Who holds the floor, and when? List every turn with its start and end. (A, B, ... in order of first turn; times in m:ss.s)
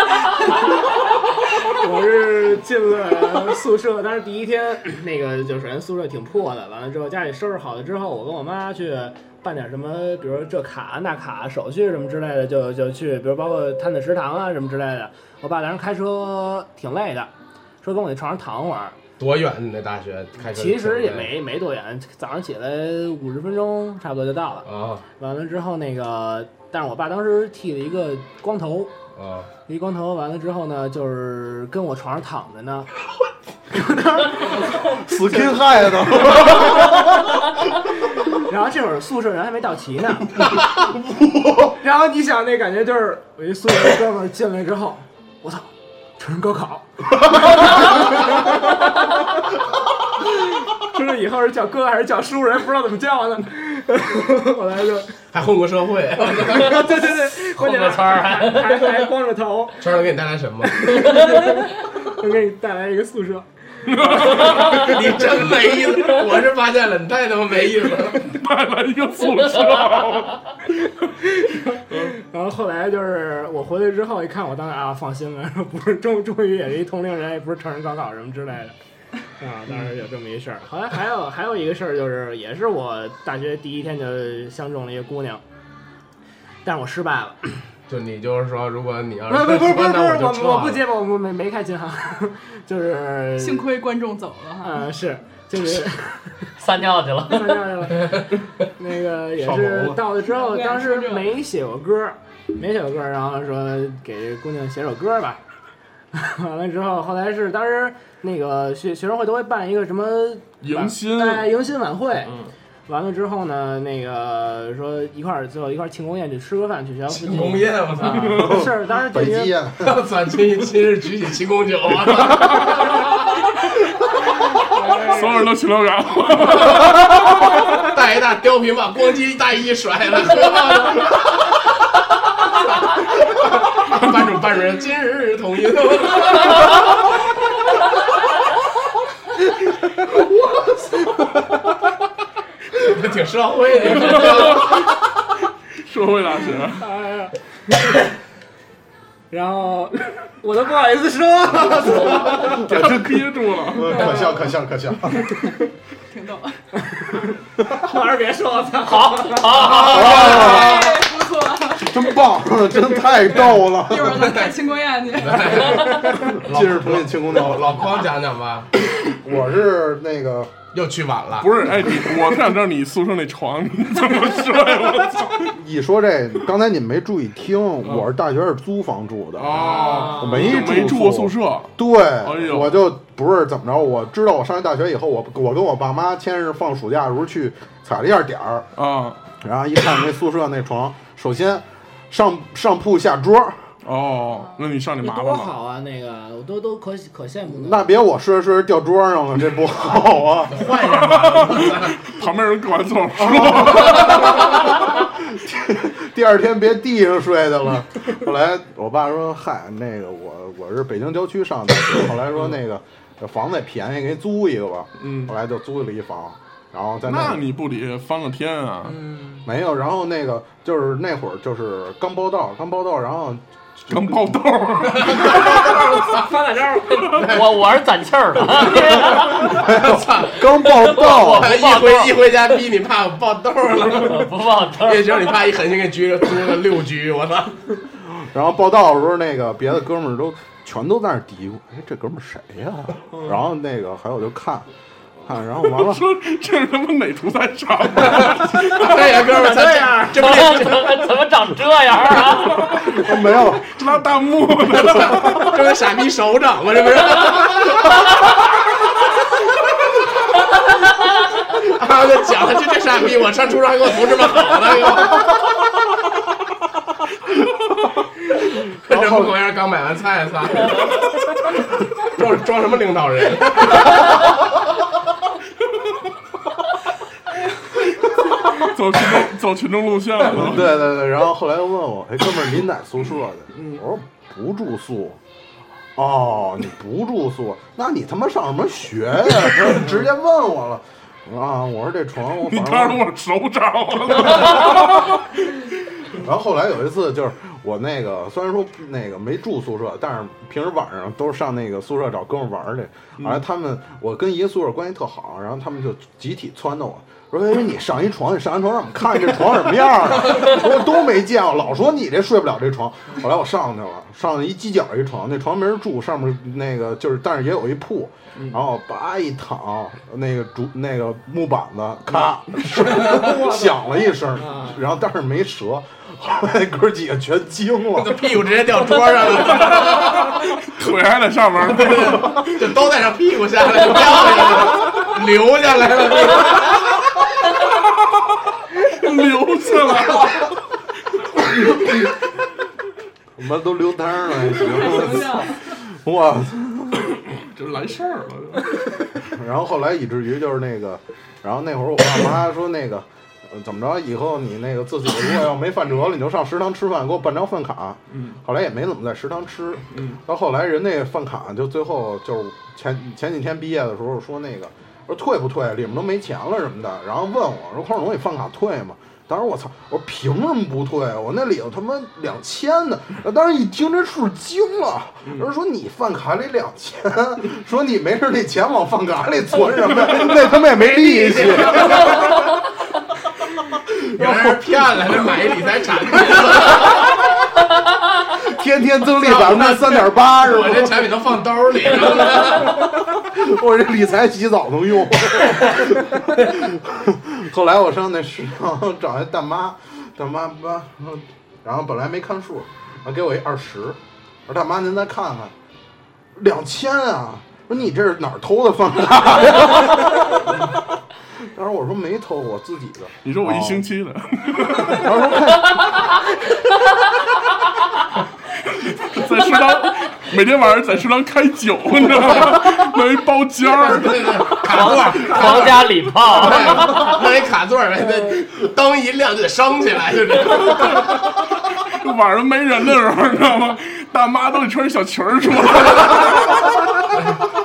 0:01.6-0:17.3 A
0:17.8-0:19.0 A
0:19.2-0:21.3 B
0:20.4-0:28.9 A
0:24.6-0:25.0 B
0:29.2-0:29.5 B
0:29.7-0:32.9 A
0:33.7-0:35.6 A
0:34.2-0:37.2 C
0:38.2-0:40.6 A
0:40.9-0:41.7 C
0:41.8-0:49.2 A
0:50.6-0:55.2 A
0:55.3-0:56.8 B
0:56.3-0:59.8 A
0:57.5-0:59.0 D
0:59.8-1:01.1 B
1:00.7-1:04.7 A
1:03.8-1:05.0 E
1:04.6-1:08.2 B
1:08.1-1:10.8 E
1:11.0-1:18.7 A
1:19.4-1:25.4 A
1:26.6-1:27.6 A
1:27.9-1:30.8 B
1:29.3-1:33.6 A
1:33.4-1:34.8 F
1:34.6-1:36.4 A
1:36.6-1:37.7 D
1:37.3-1:45.4 A
1:38.0-1:38.2 B
1:39.4-1:40.0 B
1:40.2-1:41.3 F
1:46.1-1:52.4 A
1:50.6-1:51.5 E
1:52.9-1:59.6 A
1:57.1-1:58.4 B
1:58.0-1:58.6 E
1:58.4-1:59.9 C
1:59.8-2:02.9 B
2:02.2-2:02.9 E
2:04.6-2:05.5 A
2:05.0-2:07.6 E
2:07.8-2:11.1 B
2:12.8-2:16.8 B
2:20.1-2:21.4 A
2:22.8-2:24.8 B
2:23.9-2:25.0 E
2:25.8-2:26.9 E
2:26.8-2:28.0 A
2:29.3-2:32.6 A
2:31.9-2:35.4 C
2:32.1-2:34.2 E
2:33.8-2:34.4 A
2:36.1-2:36.6 F
2:36.9-2:40.2 A
2:38.8-2:40.8 D
2:39.8-2:40.9 C
2:40.1-2:42.0 F
2:41.8-2:44.4 C
2:43.7-2:46.0 F
2:44.2-2:44.5 B
2:45.1-2:48.7 B
2:45.9-2:48.0 C
2:49.0-2:50.5 C
2:50.7-2:51.5 B
2:51.4-2:55.5 E
2:55.4-3:08.7 C
2:59.4-3:02.9 E
2:59.8-3:00.1 A
3:08.8-3:09.2 E
3:09.4-3:13.7 C
3:13.8-3:15.5 E
3:15.0-3:17.9 A
3:17.5-3:20.6 C
3:20.5-3:22.0 B
3:20.9-3:24.6 E
3:23.2-3:37.4 C
3:35.0-3:35.3 E
3:37.0-3:39.0 E
3:38.9-3:39.4 A
3:39.4-3:44.4 C
3:43.9-3:46.0 E
3:44.8-3:46.3 B
3:45.2-3:47.1 A
3:46.9-3:49.8 D
3:47.1-3:47.6 B
3:49.0-3:51.6 C
3:49.7-3:50.4 B
3:50.5-3:52.2 D
3:51.3-3:54.3 B
3:53.8-3:55.4 D
3:54.8-3:57.6 B
3:58.0-4:04.7 C
4:03.2-4:03.4 E
4:05.2-4:06.0 C
4:05.6-4:09.1 E
4:08.0-4:11.1 B
4:09.2-4:10.1 A
4:10.2-4:12.9 D
4:12.6-4:15.6 E
4:12.7-4:13.7 C
4:14.7-4:17.8 B
4:21.6-4:25.3 B
4:28.8-4:30.9 B
4:28.9-4:29.3 C
4:32.0-4:34.1 B
4:38.4-4:40.8 E
4:40.3-4:45.2 C
4:46.0-4:53.0 C
4:52.3-4:55.6 E
4:56.1-5:28.3 C
5:23.0-5:24.8 A
5:27.9-5:30.4 B
5:29.4-5:32.6 E
5:31.7-5:36.8 B
5:37.8-5:38.2 E
5:38.8-5:40.6 E
5:41.4-5:42.1 C
5:43.4-5:47.2 C
5:44.6-5:45.6 F
5:47.1-5:48.8 E
5:49.2-6:22.3 C
5:58.1-5:58.4 E
5:59.9-6:00.2 E
6:20.8-6:22.2 B
6:24.1-6:24.6 C
6:24.2-6:27.0 B
6:28.3-6:31.1 C
6:29.2-6:32.8 B
6:32.5-6:45.5 C
6:46.4-6:50.8 C
6:51.4-6:53.8 C
6:53.2-6:55.4 E
6:54.7-6:56.2 C
6:58.7-7:05.0 E
7:03.8-7:11.1 B
7:04.6-7:07.2 D
7:10.7-7:16.8 E